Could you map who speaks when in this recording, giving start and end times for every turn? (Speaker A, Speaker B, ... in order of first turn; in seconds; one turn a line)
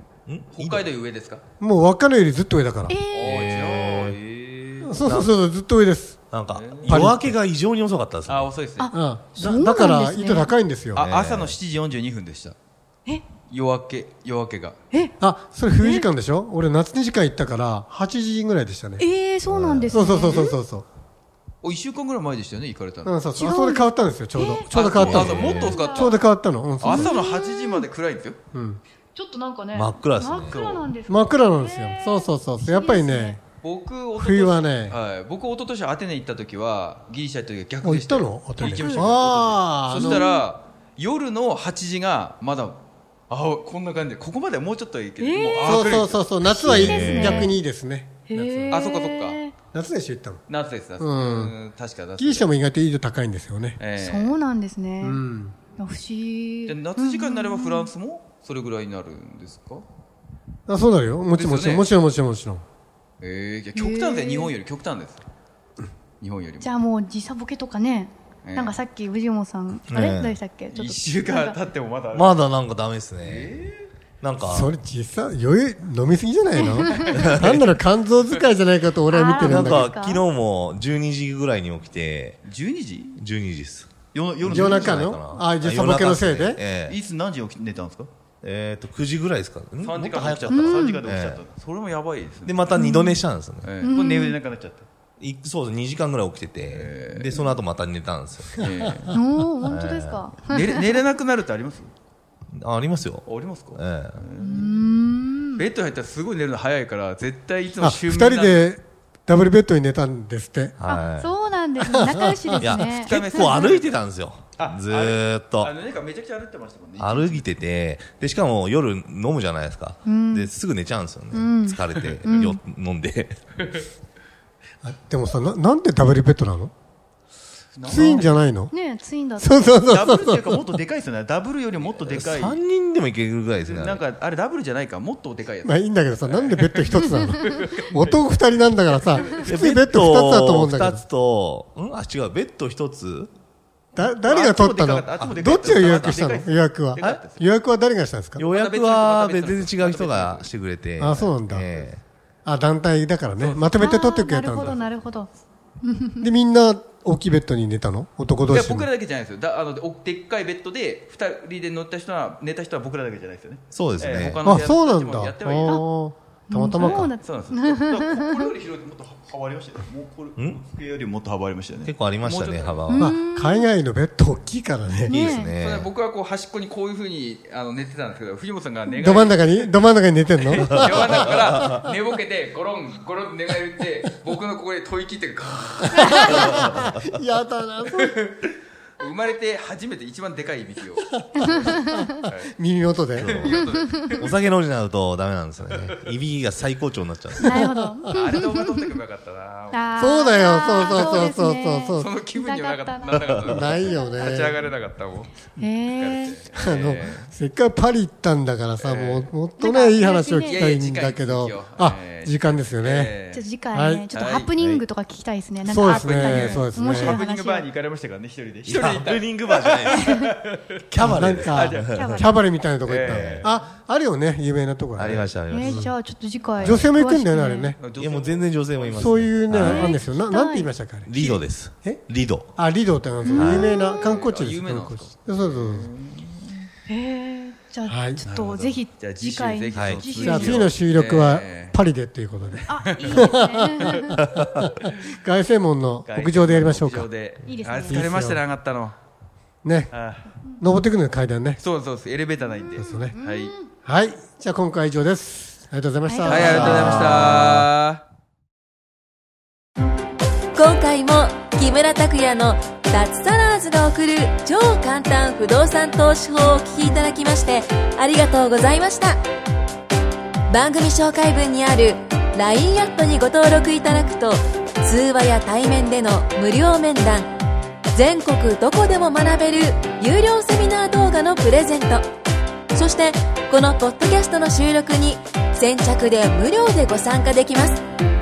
Speaker A: 0.3-0.9
Speaker B: 0.5-1.4
Speaker C: 1.6-3.0
Speaker D: 2.9-3.4
Speaker B: 3.1-5.1
Speaker A: 3.2-4.2
Speaker C: 4.8-6.2
Speaker A: 5.0-5.3
Speaker A: 6.3-8.5
Speaker B: 6.5-7.1
Speaker C: 6.8-7.4
Speaker B: 8.3-8.9
Speaker D: 8.8-10.5
Speaker C: 8.9-11.0
Speaker B: 10.9-12.6
Speaker A: 10.9-11.6
Speaker B: 13.5-14.8
Speaker C: 15.2-19.1
Speaker D: 15.8-16.1
Speaker D: 19.0-20.6
Speaker A: 19.5-20.0
Speaker C: 19.9-20.9
Speaker B: 21.6-23.2
Speaker C: 23.1-27.1
Speaker D: 23.3-26.1
Speaker B: 24.7-26.2
Speaker A: 24.9-25.8
Speaker B: 26.8-28.4
Speaker D: 26.8-27.9
Speaker C: 28.5-28.8
Speaker D: 29.1-33.4
Speaker A: 29.7-30.6
Speaker B: 30.4-30.9
Speaker C: 31.1-33.4
Speaker B: 33.6-46.2
Speaker C: 34.1-35.0
Speaker C: 37.8-40.2
Speaker D: 38.6-39.0
Speaker D: 39.9-40.4
Speaker D: 45.2-47.6
Speaker C: 45.6-48.8
Speaker A: 46.6-47.6
Speaker D: 48.3-49.5
Speaker B: 48.7-49.4
Speaker C: 49.7-50.4
Speaker B: 50.5-52.5
Speaker C: 51.0-51.5
Speaker C: 52.2-53.8
Speaker B: 53.8-54.4
Speaker D: 54.0-55.2
Speaker C: 55.0-55.5
Speaker D: 55.8-57.9
Speaker B: 56.7-59.9
Speaker C: 60.7-62.6
Speaker B: 61.4-61.9
Speaker B: 63.2-65.2
Speaker D: 63.8-64.5
Speaker B: 66.2-66.7
Speaker D: 66.6-71.6
Speaker B: 68.5-68.8
Speaker A: 69.9-70.4
Speaker B: 70.7-72.4
Speaker A: 72.1-73.6
Speaker B: 73.2-73.9
Speaker A: 74.2-74.7
Speaker C: 74.5-80.0
Speaker D: 76.6-77.1
Speaker B: 76.6-77.3
Speaker A: 77.1-77.7
Speaker D: 79.1-80.2
Speaker A: 79.3-82.4
Speaker B: 82.5-83.2
Speaker A: 83.2-83.9
Speaker B: 84.1-85.0
Speaker A: 84.4-87.0
Speaker C: 84.4-86.6
Speaker B: 86.8-88.1
Speaker A: 88.4-91.4
Speaker B: 89.8-92.8
Speaker D: 90.5-91.1
Speaker A: 92.5-93.7
Speaker D: 92.7-93.2
Speaker B: 93.6-94.8
Speaker D: 93.8-94.4
Speaker A: 95.2-98.6
Speaker B: 96.6-97.6
Speaker B: 98.6-99.2
Speaker D: 99.1-100.9
Speaker A: 99.7-100.3
Speaker B: 100.5-101.9
Speaker A: 102.5-104.2
Speaker B: 103.2-104.8
Speaker D: 104.4-105.7
Speaker B: 105.6-108.7
Speaker C: 107.8-110.8
Speaker A: 110.8-111.3
Speaker D: 110.8-113.7
Speaker C: 111.8-112.8
Speaker A: 112.6-115.7
Speaker B: 113.0-114.0
Speaker B: 114.6-117.4
Speaker A: 117.0-123.4
Speaker D: 120.0-120.5
Speaker D: 121.3-122.6
Speaker C: 124.8-126.7
Speaker B: 127.8-128.3
Speaker C: 127.8-128.7
Speaker D: 128.7-129.7
Speaker C: 129.4-130.6
Speaker B: 129.9-132.6
Speaker A: 131.8-134.0
Speaker B: 133.6-138.2
Speaker C: 135.6-141.1
Speaker B: 139.2-139.5
Speaker A: 139.4-143.3
Speaker B: 144.0-147.5
Speaker C: 144.0-148.4
Speaker A: 148.4-152.0
Speaker B: 148.4-150.5
Speaker C: 151.0-151.9
Speaker C: 152.4-154.8
Speaker B: 153.3-153.8
Speaker D: 153.8-155.3
Speaker B: 154.5-154.8
Speaker D: 155.8-156.3
Speaker C: 156.2-158.9
Speaker B: 158.5-165.8
Speaker A: 163.7-164.4
Speaker C: 164.4-167.1
Speaker D: 166.5-168.5
Speaker B: 166.7-172.8
Speaker A: 170.4-170.6
Speaker A: 171.8-173.1
Speaker D: 172.9-173.7
Speaker C: 172.9-175.3
Speaker D: 175.1-175.5
Speaker A: 175.1-175.9
Speaker B: 175.6-179.8
Speaker C: 178.9-181.9
Speaker B: 180.4-186.8
Speaker C: 185.9-188.2
Speaker A: 186.5-187.0
Speaker B: 187.9-188.5
Speaker B: 189.0-192.5
Speaker C: 191.2-193.6
Speaker D: 191.7-192.2
Speaker A: 193.2-197.6
Speaker B: 193.2-194.3
Speaker D: 193.8-194.2
Speaker B: 195.7-195.9
Speaker D: 197.4-198.5
Speaker C: 197.4-198.2
Speaker B: 198.1-201.3
Speaker D: 199.7-204.3
Speaker C: 200.0-202.1
Speaker B: 202.0-207.3
Speaker C: 203.5-204.6
Speaker D: 205.6-206.4
Speaker C: 206.5-213.2
Speaker B: 208.8-209.3
Speaker D: 209.6-210.7
Speaker B: 210.5-213.5
Speaker D: 213.3-217.7
Speaker C: 213.7-214.1
Speaker B: 214.1-214.5
Speaker A: 214.6-214.8
Speaker C: 215.6-217.2
Speaker B: 215.8-220.6
Speaker A: 218.7-220.1
Speaker A: 220.9-222.2
Speaker C: 221.0-225.9
Speaker B: 221.2-222.3
Speaker D: 221.9-222.4
Speaker B: 222.9-223.5
Speaker A: 223.0-223.5
Speaker A: 225.0-225.9
Speaker B: 225.0-225.3
Speaker D: 225.5-227.8
Speaker A: 226.6-226.9
Speaker C: 226.6-227.8
Speaker B: 227.8-229.3
Speaker A: 228.0-229.9
Speaker C: 228.9-231.1
Speaker D: 229.5-230.7
Speaker A: 231.1-232.6
Speaker B: 231.2-231.4
Speaker C: 232.6-235.9
Speaker D: 233.2-234.1
Speaker A: 233.3-233.7
Speaker B: 233.7-236.7
Speaker D: 236.9-240.7
Speaker C: 237.9-238.2
Speaker B: 238.2-241.8
Speaker A: 239.7-240.0
Speaker C: 240.2-247.1
Speaker B: 242.5-244.5
Speaker D: 242.7-244.2
Speaker B: 246.1-249.0
Speaker D: 247.4-248.1
Speaker C: 247.9-248.4
Speaker C: 249.6-249.9
Speaker B: 249.9-250.3
Speaker C: 250.6-251.6
Speaker B: 251.6-253.5
Speaker D: 252.4-253.7
Speaker C: 252.8-253.2
Speaker C: 253.8-257.5
Speaker D: 256.1-257.2
Speaker B: 256.2-258.0
Speaker A: 257.1-257.6
Speaker E: 260.6-269.2
Speaker E: 270.5-277.3
Speaker E: 277.9-282.1
Speaker E: 282.7-287.8